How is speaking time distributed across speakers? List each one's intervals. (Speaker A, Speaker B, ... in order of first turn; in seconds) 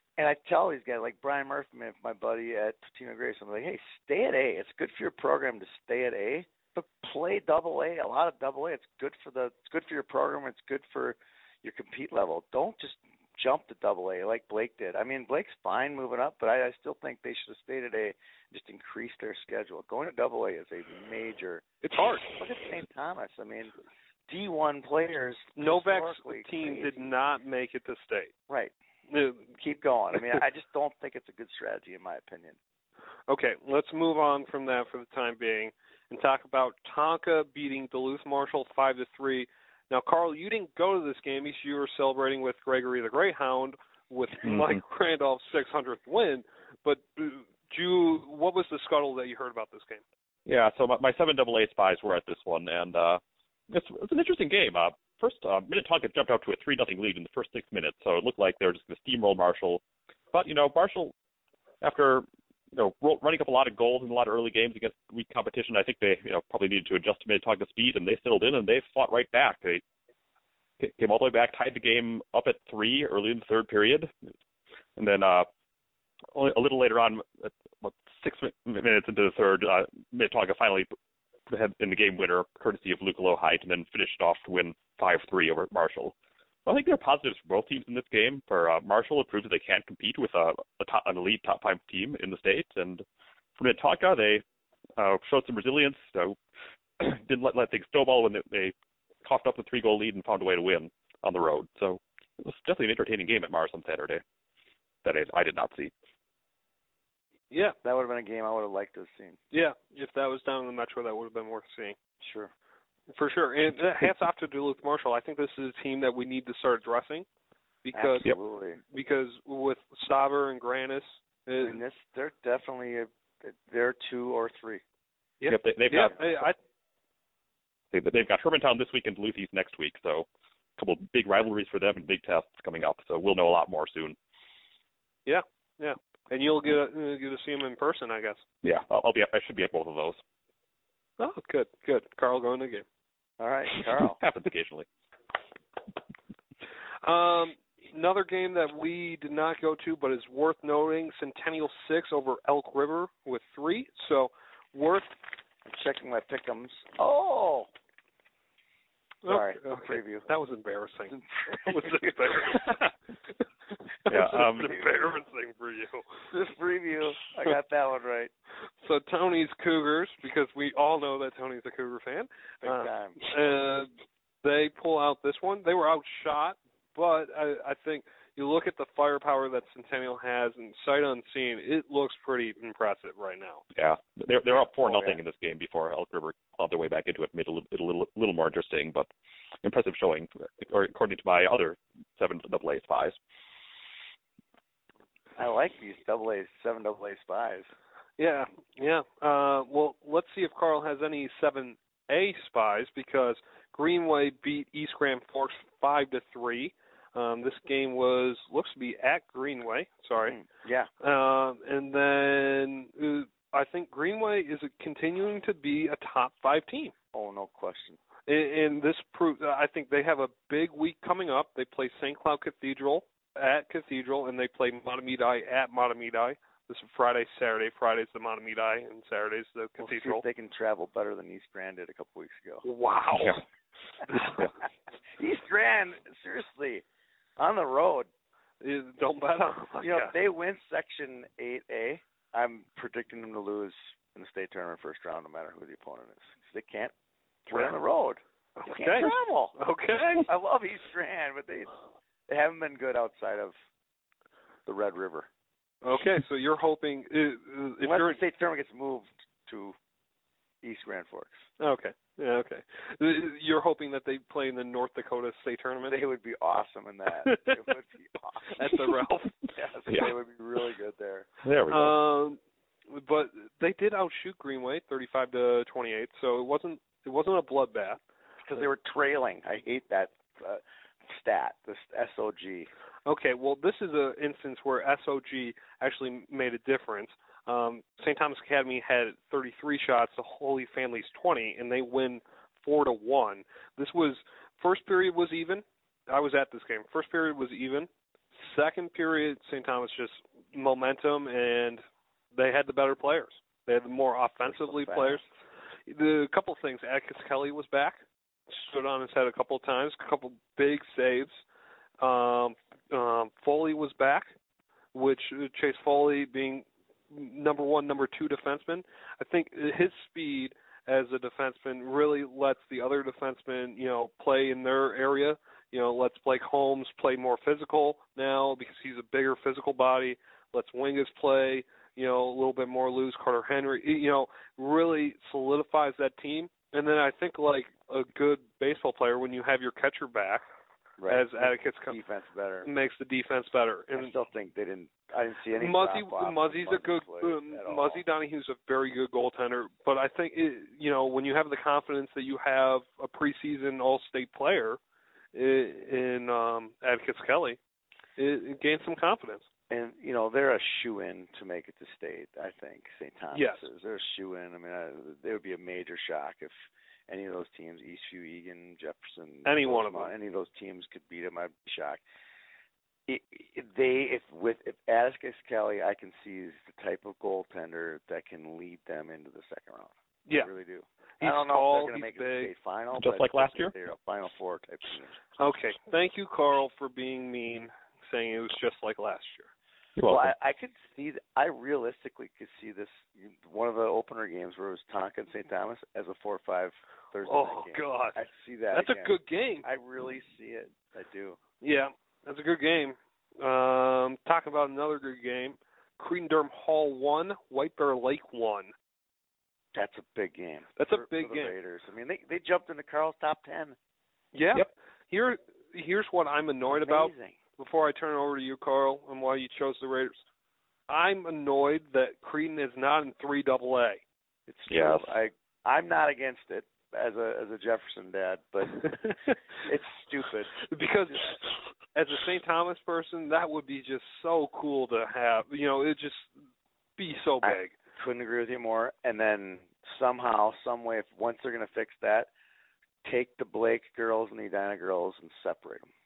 Speaker A: 0.2-21.6, 22.3-23.7, 24.3-27.1, 28.5-28.7, 29.6-32.6, 107.8-109.4, 112.2-112.5, 117.9-118.8, 121.6-124.8, 143.4-144.2, 155.6-157.7, 159.2-160.2, 161.1-162.5, 164.6-165.0, 166.3-168.3, 172.6-173.2, 184.8-185.2, 195.4-197.7, 210.2-210.9, 217.1-218.0, 229.8-232.6, 235.1-236.8, 237.4-238.1, 239.8-246.9, 247.5-249.5, 250.2-251.7, 252.3-253.5, 254.7-255.3, 257.8-259.8, 260.6-261.4, 265.8-268.7, 269.5-271.3, 278.4-282.7, 304.4-305.2, 341.0-342.7, 343.9-348.0, 359.7-366.5, 367.1-372.0, 373.1-385.3, 390.1-401.4, 409.7-413.8, 416.7-417.4, 424.5-428.9, 429.6-430.6, 437.4-442.3, 443.0-445.9
Speaker B: 21.8-22.3, 25.6-28.3, 29.1-29.5, 33.3-50.0, 109.5-112.0, 113.1-117.2, 117.8-118.3, 118.9-121.8, 125.4-126.5, 135.2-138.4, 141.2-142.8, 147.0-155.1, 159.2-162.9, 164.0-166.1, 168.8-173.9, 174.4-183.6, 198.2-210.4, 211.0-216.9, 218.3-230.2, 232.6-233.4, 238.6-240.1, 248.6-250.3, 255.8-258.2, 261.6-266.0, 267.2-267.6, 268.5-269.4, 271.7-272.4, 272.9-278.0, 283.1-305.2, 305.9-311.4, 312.0-314.3, 314.9-340.4, 341.1-342.0, 342.6-344.1, 345.6-354.8, 355.3-357.6, 358.2-359.4, 363.3-363.6, 369.4-370.1, 381.2-382.5, 385.4-389.5, 397.2-398.2, 398.7-399.6, 401.6-408.7, 410.8-411.6, 414.3-420.2, 420.9-424.0, 430.6-431.4, 431.9-436.3, 437.0-437.7
Speaker C: 44.4-44.8, 50.5-59.8, 60.3-61.1, 61.8-69.8, 70.8-74.1, 75.0-75.5, 76.3-80.9, 81.5-86.1, 86.7-93.0, 93.6-94.4, 95.0-96.4, 97.0-104.2, 105.0-105.9, 125.5-126.3, 127.9-130.2, 130.8-134.2, 138.6-140.2, 144.0-144.9, 164.1-164.7, 183.7-189.1, 189.6-193.2, 234.2-234.5, 269.9-270.1, 271.4-271.9, 383.0-383.7, 390.0-390.3, 424.7-425.1